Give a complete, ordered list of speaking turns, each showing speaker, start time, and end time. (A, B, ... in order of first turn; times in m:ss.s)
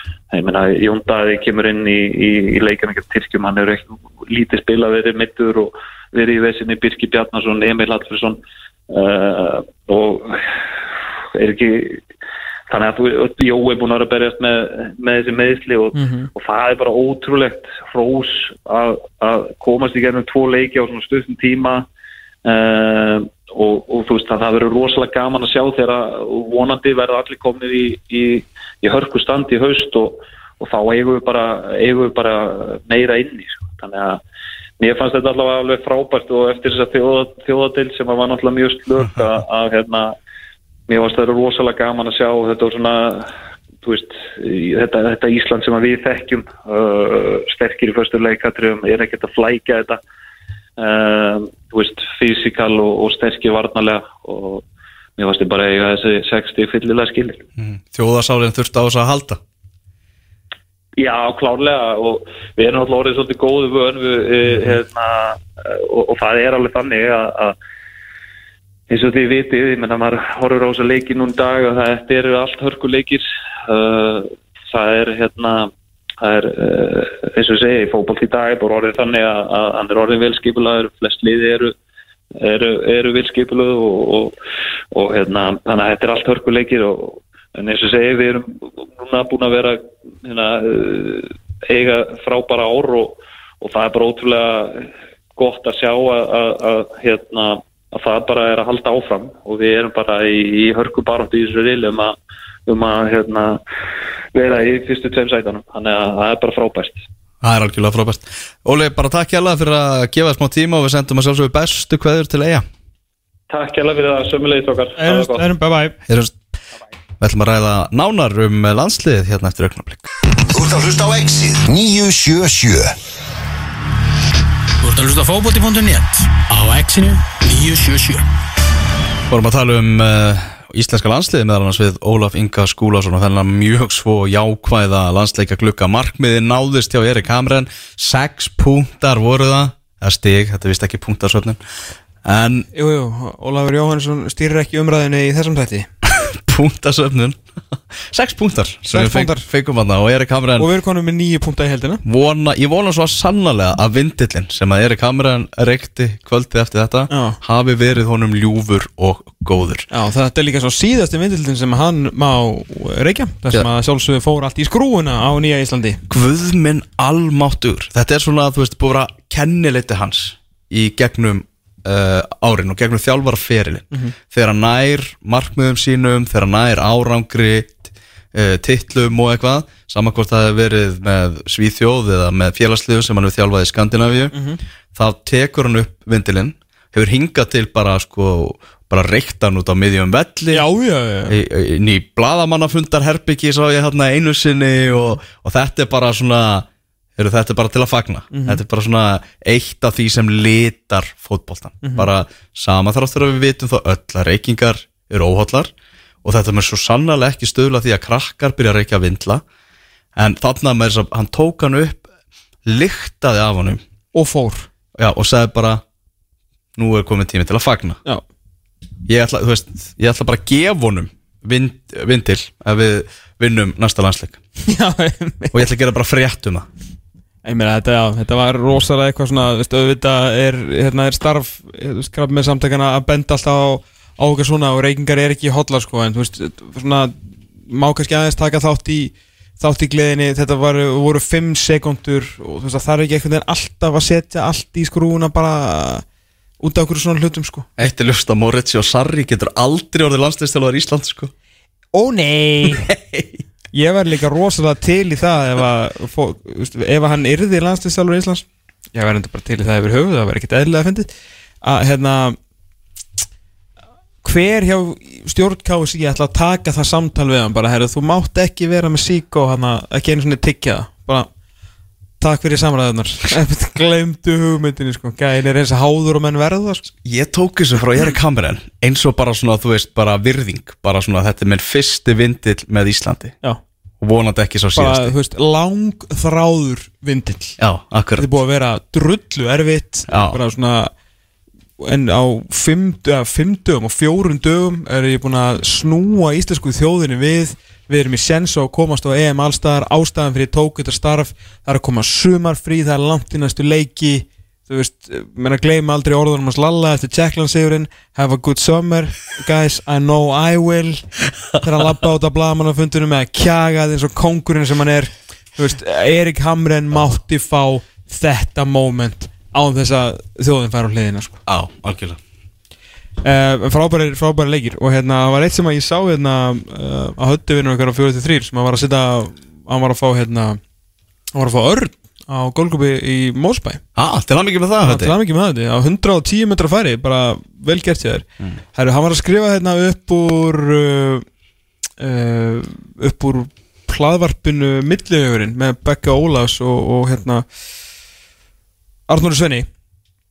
0:00.3-0:10.5 A
0:11.3-0:12.0 A
0:12.7-0:21.9 A
0:15.9-0:16.3 B
0:22.4-0:34.2 A
0:34.8-0:40.2 A
0:40.9-0:43.3 A
0:43.8-0:50.0 A
0:50.8-0:54.6 A
0:55.2-0:57.4 A
0:57.6-0:59.4 C
1:01.0-1:07.6 A
1:04.5-1:04.8 C
1:08.9-1:21.7 A
1:22.4-1:24.4 A
1:24.9-1:43.6 A
1:44.3-1:47.0 A
1:47.4-1:52.7 C
1:53.5-1:55.5 A
1:55.0-1:56.0 B
1:56.1-1:56.4 C
1:57.2-2:00.1 C
2:00.5-2:02.9 D
2:04.8-2:08.2 E
2:09.3-2:21.6 C
2:22.2-2:22.7 C
2:22.7-2:25.9 B
2:26.0-2:27.4 C
2:28.0-2:30.7 C
2:28.9-2:29.5 B
2:30.6-2:32.0 B
2:32.0-2:39.9 C
2:37.1-2:37.4 B
2:39.9-2:46.0 B
2:46.1-3:04.3 C
3:04.3-3:04.6 B
3:05.0-3:10.7 C
3:10.5-3:11.4 B
3:11.3-3:25.7 C
3:18.3-3:18.6 B
3:21.8-3:22.1 B
3:26.2-3:29.4 C
3:30.2-3:32.1 C
3:32.7-3:33.8 C
3:34.1-3:34.7 B
3:35.0-3:35.8 C
3:36.8-3:38.0 C
3:39.1-3:44.4 C
3:44.6-3:45.5 B
3:45.5-3:46.7 C
3:47.4-3:57.2 B
3:57.7-4:06.0 B
4:06.6-4:07.7 B
4:07.8-4:11.3 C
4:11.9-4:12.9 B
4:12.7-4:13.4 C
4:13.7-4:21.1 B
4:21.6-4:22.4 B
4:24.2-4:31.3 B
4:32.2-4:36.9 B
4:37.0-4:43.4 C
4:44.0-4:45.1 C
4:44.8-4:47.6 B
4:47.6-4:48.3 C
4:48.2-4:50.9 B
4:50.1-4:50.4 C
4:51.8-5:11.1 B
5:11.6-5:21.4 B
5:21.5-5:22.2 C
5:23.2-5:30.6 B
5:31.3-5:33.8 B
5:34.0-5:35.2 C
5:34.8-5:41.2 B
5:42.0-5:47.4 B
5:49.1-5:49.7 B